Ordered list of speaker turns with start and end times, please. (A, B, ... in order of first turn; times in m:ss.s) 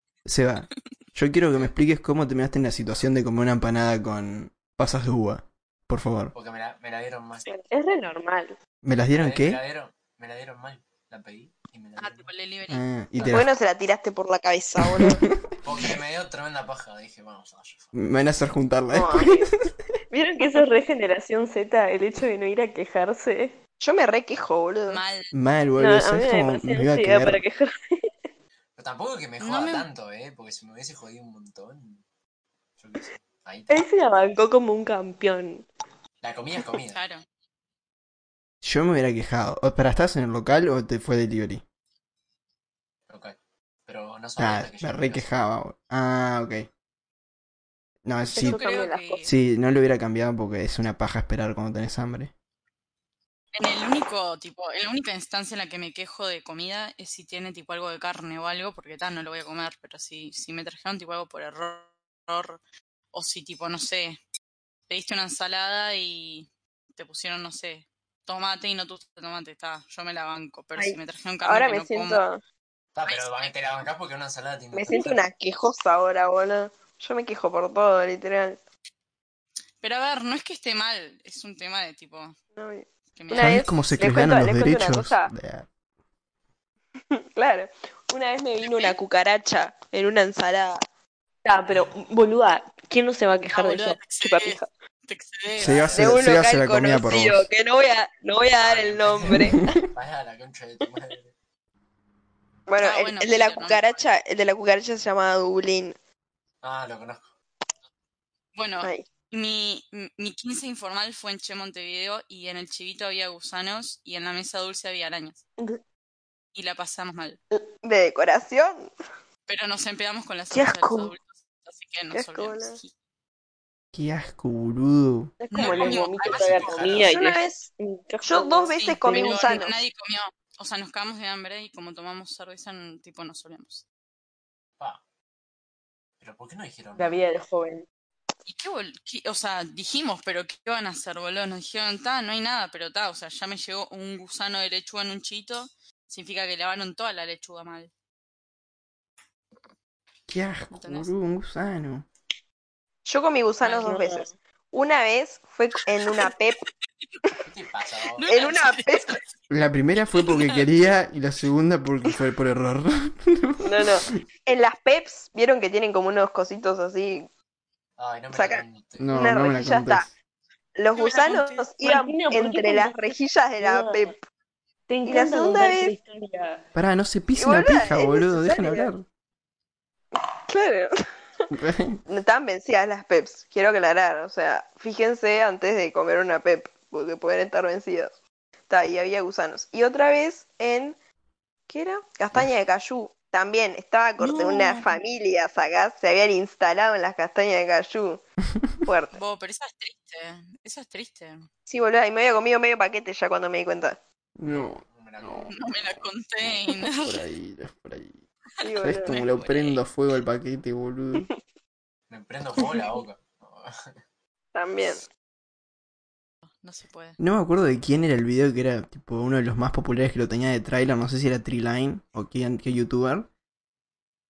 0:00.2-0:06.3 A
0:06.3-0:07.5 B
0:07.5-0:08.6 C
0:08.8-0:09.6 A
0:09.1-0:12.3 B
0:12.0-0:12.8 D
0:12.7-0:13.5 A
0:13.2-0:13.4 B
0:13.2-0:15.2 E
0:14.8-0:15.4 A
0:15.6-0:17.9 B
0:17.9-0:19.4 A
0:18.9-0:19.5 C
0:20.1-0:23.6 C
0:23.8-0:25.0 E
0:24.9-0:25.3 D
0:25.3-0:27.4 A
0:25.8-0:27.7 C
0:28.8-0:32.0 B
0:29.4-0:29.8 D
0:32.8-0:33.9 B
0:33.7-0:35.7 C
0:36.2-0:37.0 B
0:36.9-0:37.2 D
0:38.6-0:41.6 A
0:43.1-0:45.3 B
0:44.4-0:46.7 A
0:48.0-0:48.6 A
0:48.4-0:48.8 E
0:48.4-0:49.3 D
0:48.4-0:49.2 C
0:49.2-0:52.3 A
0:53.5-1:02.6 D
1:03.1-1:04.2 D
1:04.9-1:12.2 D
1:10.8-1:12.4 E
1:12.9-1:15.2 B
1:13.0-1:13.6 D
1:14.7-1:18.6 E
1:19.8-1:22.4 D
1:22.5-1:25.3 E
1:23.1-1:23.7 D
1:23.3-1:25.7 A
1:27.1-1:30.8 E
1:28.6-1:28.9 D
1:31.4-1:34.6 C
1:33.5-1:35.8 D
1:35.6-1:36.3 B
1:35.6-1:37.5 A
1:35.9-1:39.8 E
1:38.6-1:41.3 B
1:39.4-1:39.8 A
1:42.7-1:46.0 E
1:42.8-1:44.0 D
1:46.6-1:47.3 B
1:48.5-1:55.4 D
1:56.5-1:57.4 D
1:57.8-1:58.9 E
1:59.5-2:02.9 D
2:00.5-2:01.1 E
2:02.1-2:02.8 E
2:03.9-2:05.3 A
2:05.4-2:09.6 C
2:05.5-2:07.1 D
2:05.5-2:07.2 B
2:07.1-2:07.7 E
2:08.2-2:09.7 E
2:08.8-2:13.8 D
2:16.2-2:17.2 B
2:17.0-2:17.8 C
2:18.4-2:27.9 D
2:30.3-2:32.1 A
2:30.7-2:31.1 D
2:33.0-2:36.6 E
2:33.6-2:34.0 D
2:33.8-2:34.3 C
2:37.4-2:38.3 B
2:38.1-2:39.3 D
2:38.3-2:39.2 E
2:39.5-2:43.9 A
2:40.2-2:40.9 D
2:43.6-2:47.3 E
2:48.0-2:49.2 B
2:48.3-2:50.1 E
2:49.0-2:50.1 A
2:50.8-2:54.1 E
2:50.9-2:51.6 D
2:51.8-2:53.0 C
2:53.6-2:54.1 C
2:54.9-2:56.6 C
2:55.0-2:55.9 E
2:56.7-2:59.0 A
2:57.4-2:58.9 E
3:00.1-3:01.4 E
3:01.5-3:02.0 A
3:02.0-3:08.1 E
3:08.7-3:11.0 E
3:11.7-3:18.2 E
3:14.2-3:15.0 D
3:18.8-3:19.2 E
3:19.1-3:21.5 D
3:21.7-3:24.0 E
3:24.4-3:25.5 A
3:24.4-3:25.6 B
3:25.5-3:27.2 D
3:26.8-3:28.2 A
3:28.6-3:29.2 E
3:28.8-3:31.3 A
3:29.0-3:29.8 D
3:32.1-3:33.9 B
3:34.5-3:35.0 E
3:36.4-3:37.2 D
3:37.2-3:43.3 A